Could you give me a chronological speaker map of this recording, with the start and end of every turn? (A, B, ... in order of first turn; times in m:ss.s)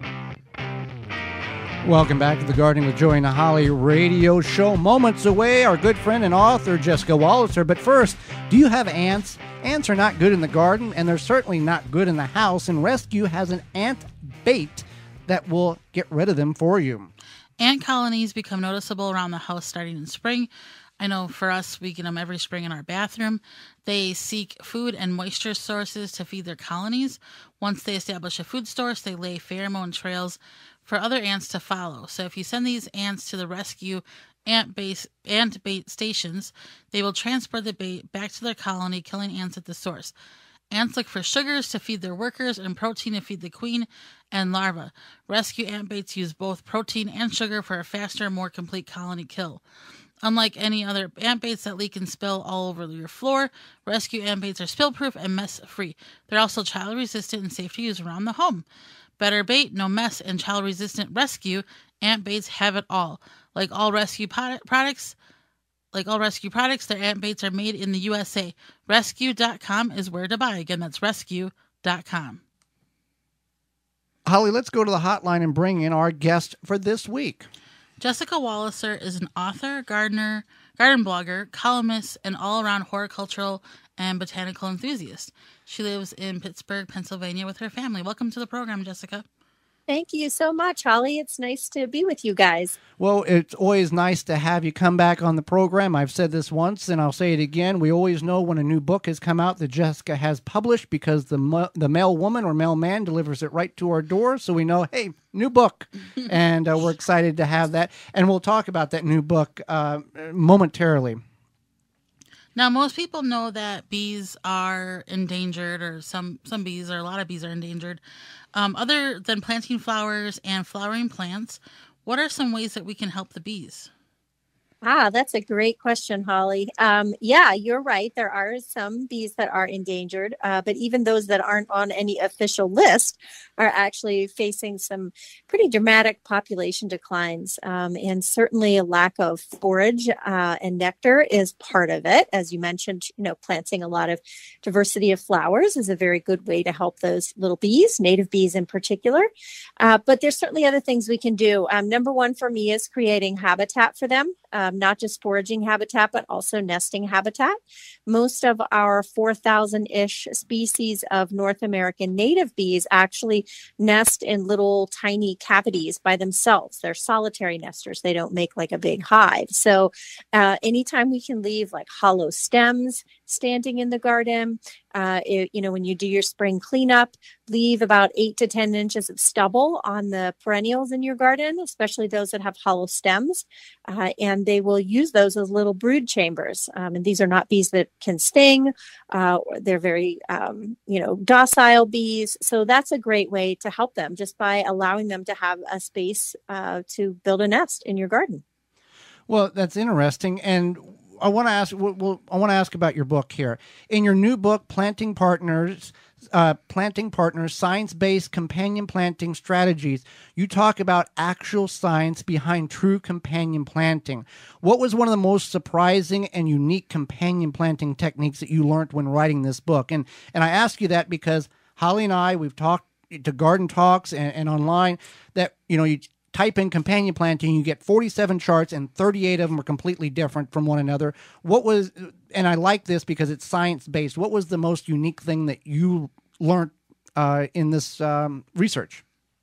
0:01.8-0:17.1 A
0:17.6-0:20.5 B
0:21.0-0:40.1 B
0:40.7-0:49.6 B
0:50.2-0:58.6 B
0:59.2-1:05.2 B
1:05.9-1:12.4 B
1:14.2-1:17.5 A
1:18.0-1:29.2 B
1:29.9-1:32.8 C
1:33.0-1:51.2 A
1:52.6-1:58.0 B
1:58.6-2:03.9 B
2:04.8-2:29.3 C
2:29.8-3:18.4 C
3:19.3-3:59.0 A